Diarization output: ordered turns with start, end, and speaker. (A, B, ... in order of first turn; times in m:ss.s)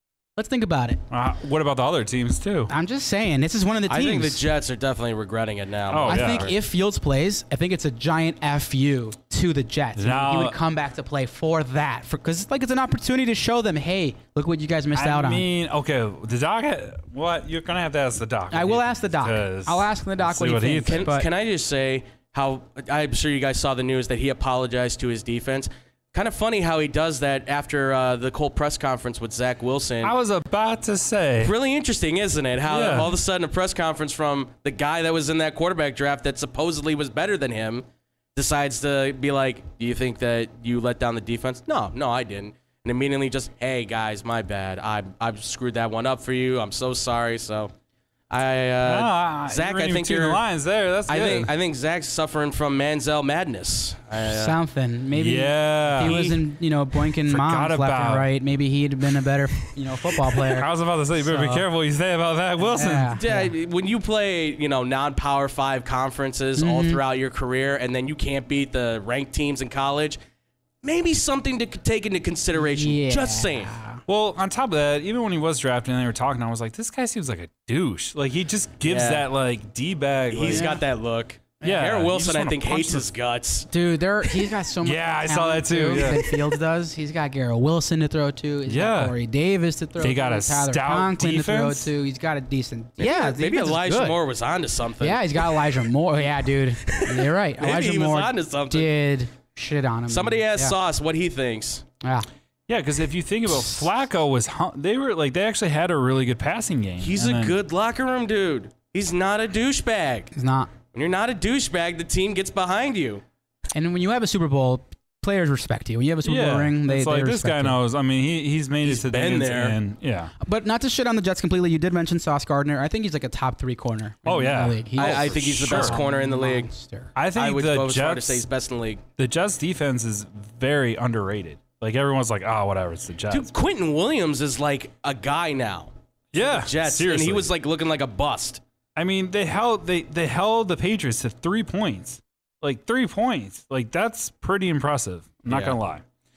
0:00.4-0:01.0 A
0:01.1-0:02.7 B
0:02.7-0:04.4 A
0:03.9-0:06.5 C
0:05.9-0:06.5 B
0:06.1-0:15.4 A
0:10.0-0:10.6 B
0:14.9-0:21.1 B
0:18.5-0:21.3 A
0:20.8-0:30.1 C
0:30.0-0:31.5 B
0:31.4-0:47.7 C
0:32.6-0:33.1 B
0:48.3-0:50.4 C
0:48.8-0:51.5 B
0:51.1-0:54.6 C
0:54.2-1:01.6 A
0:55.1-0:56.4 B
0:57.2-0:58.3 B
1:00.4-1:03.1 B
1:02.6-1:03.5 A
1:03.2-1:10.2 C
1:06.6-1:07.0 A
1:10.8-1:13.8 C
1:12.6-1:14.0 A
1:14.1-1:20.7 B
1:18.8-1:19.2 C
1:20.3-1:23.7 C
1:20.5-1:20.8 A
1:21.6-1:23.0 B
1:23.7-1:34.2 A
1:24.8-1:26.5 B
1:28.6-1:29.1 B
1:30.0-1:31.9 B
1:33.0-1:35.7 C
1:35.0-1:40.7 A
1:36.9-1:38.9 C
1:40.1-1:41.8 C
1:42.0-1:42.3 A
1:42.7-1:47.6 B
1:47.0-1:50.3 C
1:50.3-1:50.7 A
1:50.9-1:53.2 C
1:53.7-1:57.8 A
1:56.2-2:00.3 B
1:58.8-1:59.8 C
2:00.4-2:07.1 A
2:04.2-2:06.0 B
2:05.0-2:06.7 C
2:07.1-2:08.4 B
2:07.3-2:09.0 C
2:09.2-2:13.5 B
2:13.3-2:18.6 C
2:16.3-2:17.5 B
2:19.0-2:26.0 B
2:25.5-2:25.8 C